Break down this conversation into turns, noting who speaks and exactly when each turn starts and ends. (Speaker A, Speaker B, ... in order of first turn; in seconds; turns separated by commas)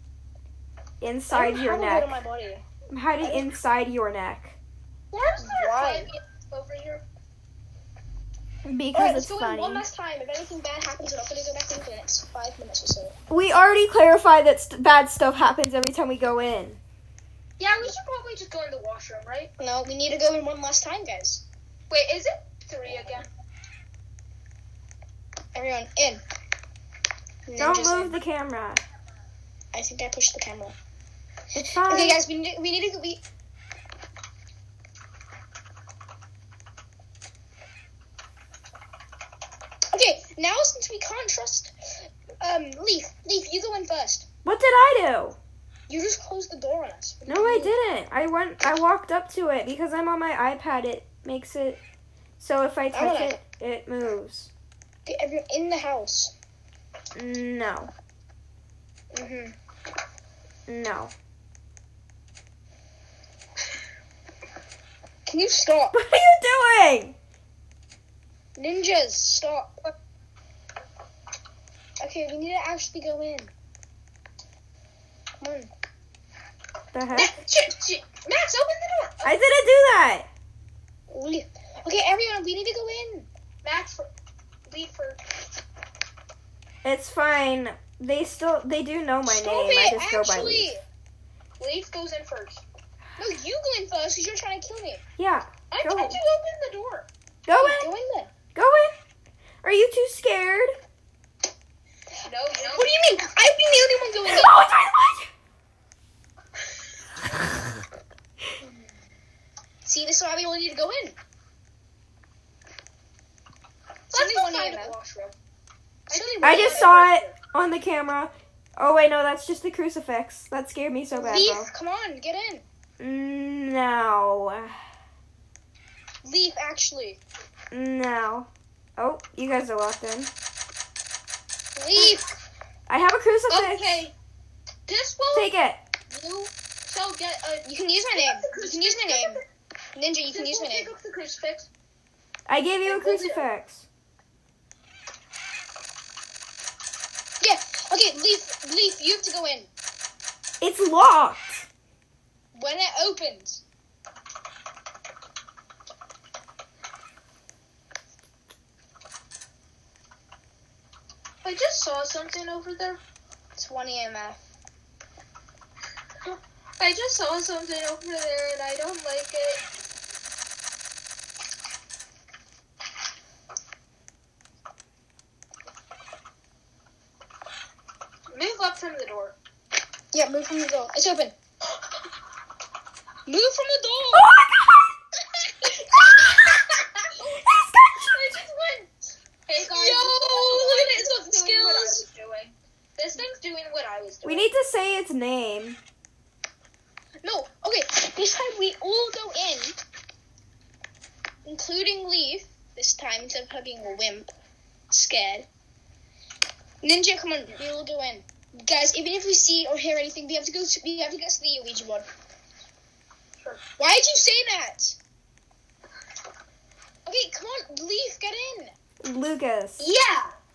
Speaker A: 1.0-2.1, Speaker B: 1.3-2.6, Speaker A: 2.9-4.6, Speaker C: 5.1-7.0, Speaker B: 5.4-6.1, Speaker A: 8.7-9.9, Speaker B: 8.9-13.2, Speaker A: 13.3-16.8, Speaker C: 17.6-19.5, Speaker B: 19.6-21.4, Speaker C: 21.9-23.3, Speaker B: 25.6-26.2, Speaker B: 27.5-28.2, Speaker A: 27.6-28.8, Speaker B: 29.7-30.8, Speaker A: 31.5-32.2, Speaker B: 31.8-33.2, Speaker B: 39.9-44.3, Speaker A: 44.4-45.4, Speaker B: 45.9-47.8, Speaker A: 47.3-51.8, Speaker A: 52.4-54.5, Speaker B: 52.9-53.4, Speaker B: 55.1-56.3, Speaker A: 57.1-57.9, Speaker B: 59.1-59.5, Speaker A: 60.7-61.1, Speaker B: 65.3-66.0, Speaker A: 65.9-67.2, Speaker B: 68.6-69.8, Speaker B: 72.0-73.5, Speaker B: 75.4-75.7, Speaker A: 76.9-77.3, Speaker C: 77.1-79.3, Speaker A: 79.2-80.3, Speaker B: 81.1-83.3, Speaker C: 83.6-84.1, Speaker C: 84.7-85.2, Speaker A: 86.8-90.7, Speaker B: 89.3-90.8, Speaker C: 91.6-92.6, Speaker B: 93.2-95.0, Speaker A: 95.2-96.2, Speaker C: 95.7-97.1, Speaker A: 97.5-97.9, Speaker B: 97.5-98.3, Speaker A: 98.5-99.0, Speaker A: 99.6-100.8, Speaker C: 102.2-103.1, Speaker B: 102.6-104.6, Speaker A: 104.2-105.3, Speaker B: 109.8-111.2, Speaker C: 114.1-115.3, Speaker B: 114.1-115.0, Speaker B: 116.1-117.0, Speaker C: 116.1-117.4, Speaker A: 116.4-121.7, Speaker B: 121.1-122.7, Speaker A: 123.0-124.8, Speaker B: 126.2-127.2, Speaker A: 127.7-130.3, Speaker B: 131.8-132.3, Speaker A: 132.9-134.1, Speaker C: 133.5-134.1, Speaker C: 134.9-135.5, Speaker A: 135.3-135.8, Speaker C: 136.1-139.4, Speaker B: 137.7-139.4, Speaker B: 139.9-140.9, Speaker C: 140.3-141.7, Speaker A: 142.5-143.9, Speaker C: 142.8-143.5, Speaker B: 147.4-149.7, Speaker A: 150.6-151.7, Speaker B: 152.5-153.6, Speaker C: 161.4-163.0, Speaker B: 163.6-164.4, Speaker C: 166.3-169.6, Speaker C: 178.3-179.4, Speaker B: 180.1-181.3, Speaker B: 183.3-184.3, Speaker A: 184.1-185.0, Speaker A: 187.2-188.2, Speaker B: 188.1-188.9, Speaker C: 189.5-194.5, Speaker B: 189.6-192.1, Speaker A: 194.2-195.8, Speaker B: 197.2-199.8, Speaker B: 201.5-204.3, Speaker B: 204.9-205.5, Speaker B: 206.8-212.1, Speaker B: 213.8-215.0, Speaker B: 217.1-218.7, Speaker A: 219.0-219.8, Speaker C: 219.8-220.3